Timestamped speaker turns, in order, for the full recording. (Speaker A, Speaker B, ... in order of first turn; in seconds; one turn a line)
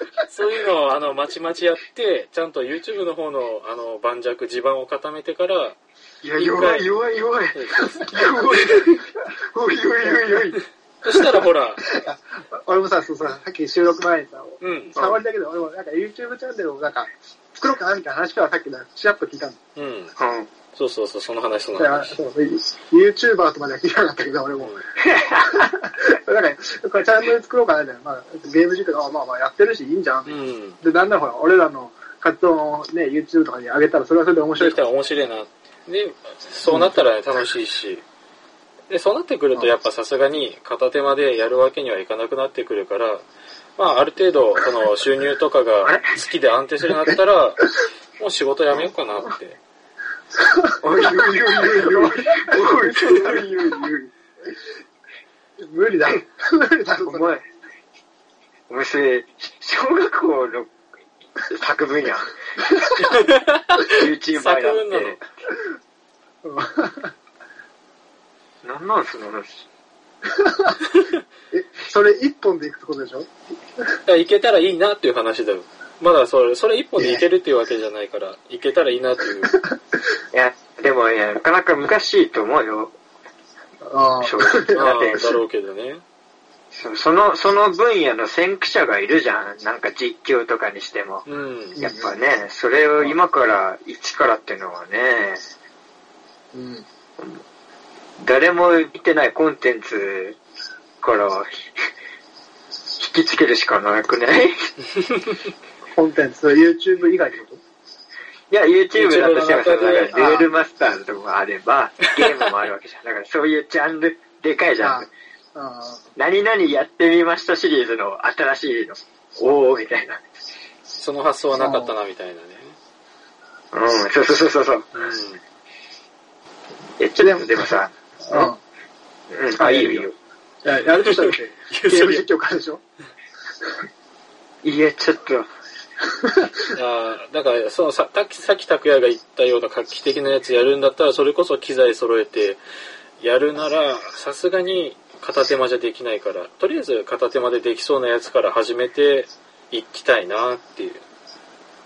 Speaker A: 0.3-5.8
Speaker B: 6.2-10.6
Speaker A: 6.3-6.8
Speaker A: 7.5-7.8
Speaker A: 11.0-11.8
Speaker C: 11.3-19.6
Speaker A: 14.6-14.9
Speaker A: 19.8-20.1
Speaker B: 20.2-20.5
Speaker A: 20.8-22.1
Speaker C: 21.8-34.9
Speaker B: 25.0-25.6
Speaker A: 30.2-30.8
Speaker A: 34.6-38.0
Speaker C: 36.6-36.9
Speaker A: 38.9-43.2
Speaker A: 43.8-47.6
Speaker B: 45.8-46.1
Speaker C: 46.8-47.1
Speaker A: 48.2-49.6
Speaker C: 50.4-53.5
Speaker B: 50.8-54.1
Speaker C: 55.6-57.4
Speaker B: 57.0-57.4
Speaker B: 58.7-60.7
Speaker B: 61.4-63.2
Speaker A: 63.2-63.8
Speaker B: 63.8-65.2
Speaker A: 64.3-65.2
Speaker C: 66.4-67.1
Speaker B: 68.6-69.5
Speaker C: 70.4-70.7
Speaker C: 71.5-73.3
Speaker A: 74.0-79.5
Speaker C: 77.0-77.2
Speaker C: 79.4-79.7
Speaker B: 80.3-82.9
Speaker C: 83.9-84.9
Speaker B: 84.2-85.3
Speaker A: 84.7-86.0
Speaker B: 86.7-91.2
Speaker A: 91.3-91.8
Speaker C: 91.8-92.1
Speaker B: 91.8-95.4
Speaker C: 96.5-96.8
Speaker B: 98.2-100.4
Speaker B: 101.0-101.7
Speaker B: 103.0-104.7
Speaker C: 105.9-107.6
Speaker B: 108.5-115.1
Speaker A: 109.0-110.3
Speaker C: 110.1-110.5
Speaker C: 114.8-116.1
Speaker B: 116.2-120.2
Speaker A: 121.0-122.7
Speaker C: 121.5-122.0
Speaker B: 123.7-124.9
Speaker A: 124.9-125.4
Speaker B: 127.0-128.5
Speaker C: 127.2-127.7
Speaker C: 128.2-128.6
Speaker B: 129.3-130.1
Speaker C: 129.6-130.1
Speaker C: 130.6-132.8
Speaker A: 131.1-132.2
Speaker B: 134.6-135.5
Speaker C: 136.2-136.7
Speaker A: 136.7-142.6
Speaker A: 143.2-151.0